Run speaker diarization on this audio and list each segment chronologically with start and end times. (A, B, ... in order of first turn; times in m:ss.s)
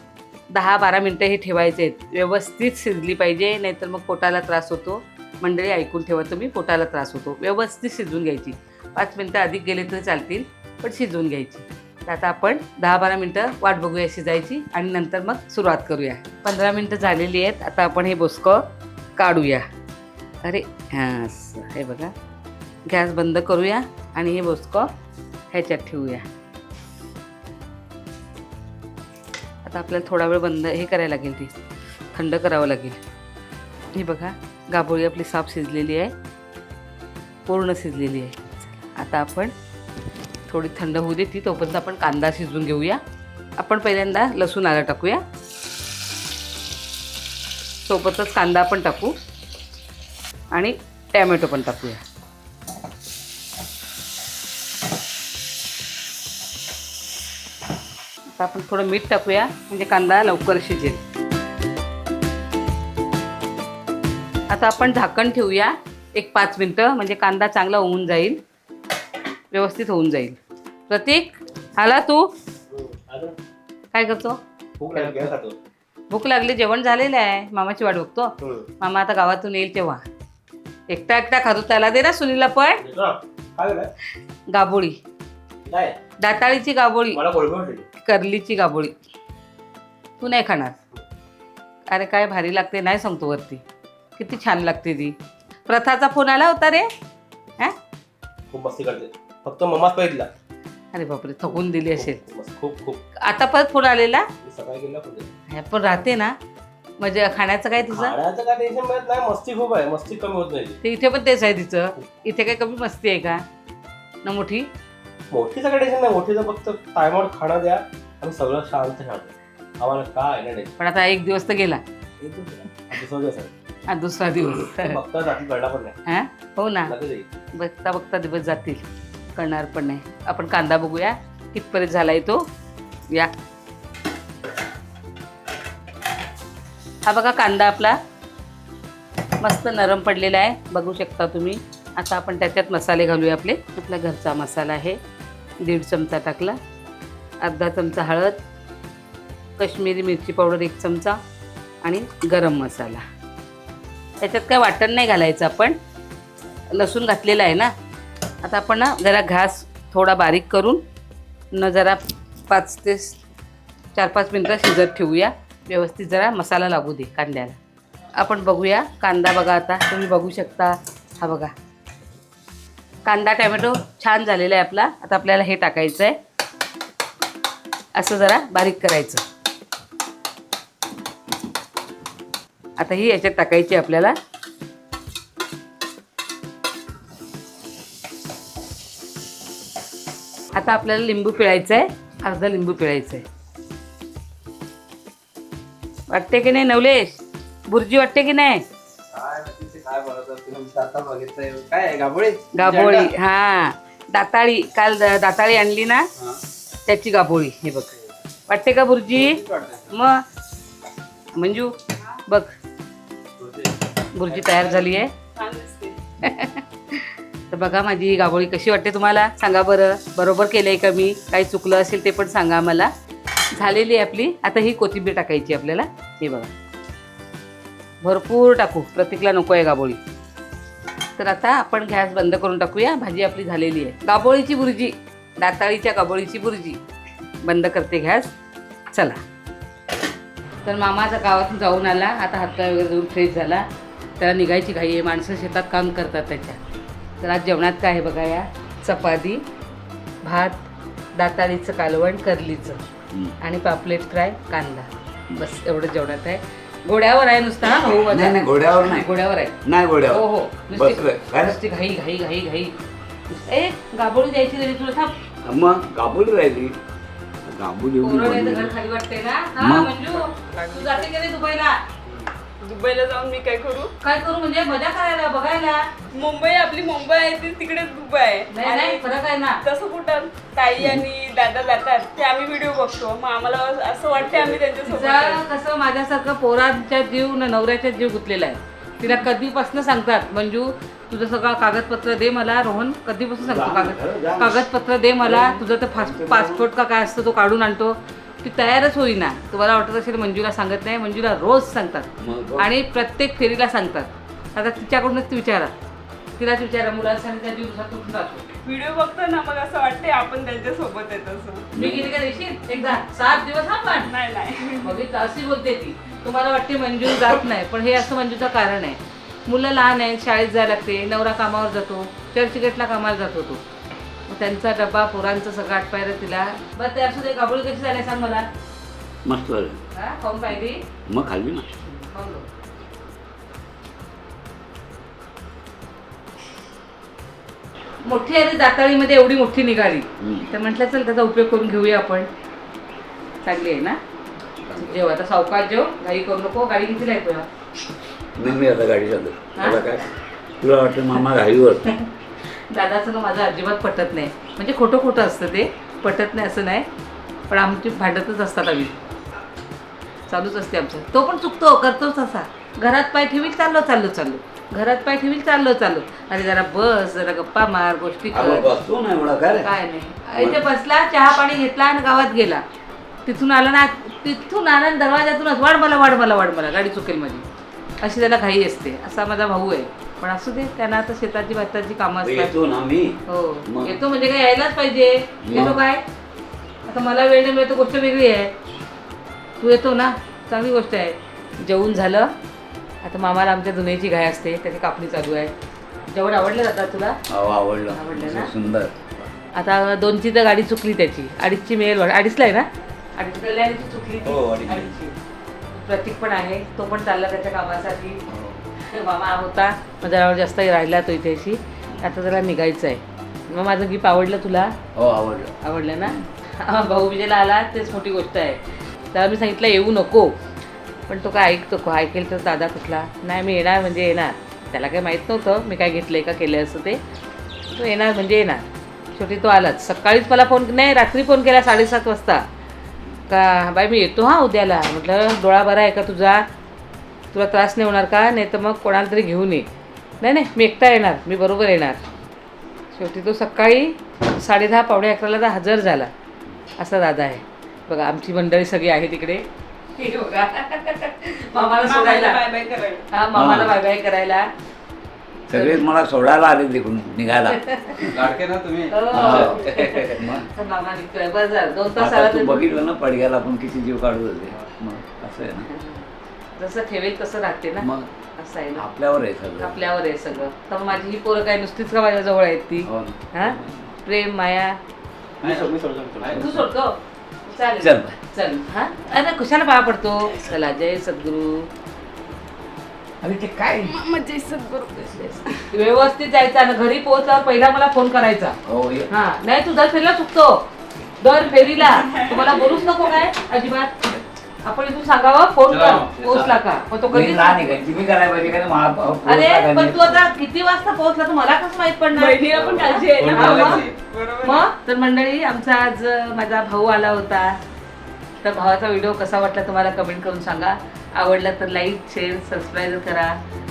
0:00.5-0:18.6 A
0:19.2-0:19.6 A
0:20.4-0:22.1 A
0:22.9-0:24.9 A
0:25.5-0:26.2 A
0:29.6-0:31.5 A
0:32.1-0:33.0 A
0:33.9-0:36.1 A
0:37.4-0:39.5 A
0:40.5-0:43.0 A
0:43.6-0:45.2 A
0:47.8-0:49.1 A
0:50.5-0:52.0 A
0:58.3-1:01.0 A
1:04.5-1:08.4 A
1:09.5-1:10.4 A
1:10.9-1:12.3 A
1:12.7-1:13.4 B
1:13.9-1:14.4 A
1:14.8-1:15.6 B
1:14.9-1:15.3 A
1:16.1-1:20.0 A
1:18.4-1:18.7 B
1:20.9-1:22.8 A
1:22.8-1:23.9 B
1:24.5-1:25.0 A
1:25.6-1:26.0 B
1:26.2-1:27.2 A
1:27.1-1:27.8 B
1:28.0-1:29.0 A
1:30.2-1:30.8 A
1:31.9-1:33.6 A
1:34.2-1:35.1 A
1:35.7-1:36.9 A
1:38.5-1:40.3 B
1:40.9-1:42.2 A
1:41.7-1:43.0 B
1:43.2-1:44.3 A
1:44.4-1:45.3 B
1:45.5-1:46.4 A
1:47.0-1:48.2 A
1:47.9-1:50.8 B
1:50.8-1:53.4 A
1:54.2-1:54.7 A
1:55.3-2:00.7 B
2:00.8-2:01.8 A
2:02.2-2:03.5 B
2:03.9-2:05.0 A
2:04.6-2:06.0 B
2:06.0-2:06.9 A
2:06.8-2:07.3 B
2:07.5-2:12.4 A
2:17.0-2:18.0 A
2:19.4-2:25.0 A
2:25.6-2:26.6 A
2:27.4-2:28.4 A
2:29.6-2:31.2 A
2:31.8-2:33.0 A
2:34.2-2:35.8 A
2:36.7-2:37.7 A
2:38.4-2:40.8 A
2:41.5-2:43.2 A
2:43.9-2:47.6 A
2:48.2-2:51.5 A
2:53.0-2:56.2 A
2:58.0-2:59.2 A
3:02.8-3:04.2 A
3:10.5-3:13.2 A
3:16.1-3:18.6 A
3:19.1-3:23.1 C
3:22.5-3:26.1 A
3:26.8-3:30.2 A
3:29.1-3:29.9 C
3:31.3-3:31.7 A
3:32.2-3:32.5 A
3:33.4-3:33.7 C
3:34.1-3:35.1 A
3:34.3-3:36.0 D
3:36.2-3:42.9 A
3:43.5-3:46.5 A
3:48.0-3:50.0 A
3:51.2-3:56.8 A
3:57.4-3:58.3 A
3:58.9-3:59.2 A
4:00.6-4:03.6 A
4:04.2-4:06.6 A
4:07.2-4:09.4 A
4:10.2-4:10.6 A
4:11.1-4:12.8 A
4:13.1-4:13.4 E
4:13.4-4:19.5 A
4:18.1-4:21.6 E
4:20.1-4:22.7 A
4:23.3-4:25.1 A
4:25.4-4:26.8 E
4:27.4-4:28.7 E
4:28.0-4:31.8 A
4:29.6-4:29.9 E
4:30.2-4:31.1 D
4:32.6-4:33.9 D
4:34.0-4:35.9 A
4:36.1-4:39.0 D
4:38.5-4:39.6 A
4:39.6-4:45.4 D
4:40.8-4:41.0 E
4:44.1-4:44.6 E
4:44.8-5:05.7 A
4:53.4-4:54.6 E
4:55.2-4:56.7 E
5:02.2-5:02.7 E
5:06.4-5:08.5 A
5:08.6-5:11.7 D
5:11.7-5:12.1 E
5:11.7-5:14.1 A
5:14.0-5:15.0 D
5:14.8-5:23.6 A
5:24.3-5:28.5 A
5:29.2-5:29.8 E
5:29.9-5:30.8 A
5:31.0-5:31.7 E
5:31.8-5:32.5 A
5:38.0-5:42.3 A
5:40.2-5:40.5 E
5:43.4-5:44.0 A
5:44.6-5:45.0 E
5:44.8-5:47.5 A
5:48.4-5:51.9 E
5:49.6-5:49.8 A
5:51.8-5:56.9 A
5:57.5-5:58.9 A
6:00.3-6:08.7 A
6:08.3-6:09.7 E
6:09.6-6:12.6 A
6:10.4-6:10.6 E
6:13.2-6:17.4 A
6:18.0-6:22.5 A
6:22.2-6:24.0 E
6:23.3-6:26.0 A
6:25.4-6:25.8 E
6:26.8-6:28.5 A
6:29.6-6:32.3 A
6:33.0-6:35.5 A
6:36.1-6:37.2 A
6:37.3-6:39.1 E
6:37.9-6:38.5 A
6:39.5-6:45.1 A
6:44.2-6:45.0 E
6:45.7-6:48.2 A
6:48.3-6:48.6 E
6:48.8-6:54.7 A
6:54.9-6:56.3 E
6:55.6-6:58.6 A
6:59.1-7:00.4 A
7:01.1-7:07.0 A
7:07.7-7:12.4 A
7:13.3-7:16.4 A
7:17.3-7:19.7 A
7:20.2-7:22.0 A
7:22.9-7:26.1 A
7:26.8-7:29.4 A
7:30.0-7:32.4 A
7:31.8-7:33.0 D
7:33.1-7:34.5 A
7:33.3-7:33.8 E
7:35.5-7:38.3 E
7:35.5-7:35.8 A
7:37.5-7:38.1 A
7:38.1-7:39.6 C
7:38.9-7:42.6 A
7:39.1-7:40.5 E
7:42.0-7:45.7 E
7:45.7-7:48.9 A
7:47.8-7:48.1 E
7:48.7-7:49.8 E
7:49.6-7:54.8 A
7:52.8-7:54.0 E
7:55.4-7:56.6 B
7:55.4-7:56.5 C
7:56.3-8:01.7 A
7:57.8-7:58.2 E
8:03.2-8:04.0 E
8:03.8-8:05.7 D
8:05.7-8:08.6 A
8:08.6-8:09.1 E
8:09.1-8:10.7 A
8:11.2-8:17.8 A
8:11.9-8:13.2 D
8:15.7-8:16.6 C
8:17.1-8:20.2 E
8:19.2-8:23.9 A
8:22.1-8:24.7 D
8:22.6-8:23.9 C
8:23.2-8:23.9 E
8:24.4-8:27.6 A
8:28.4-8:33.4 A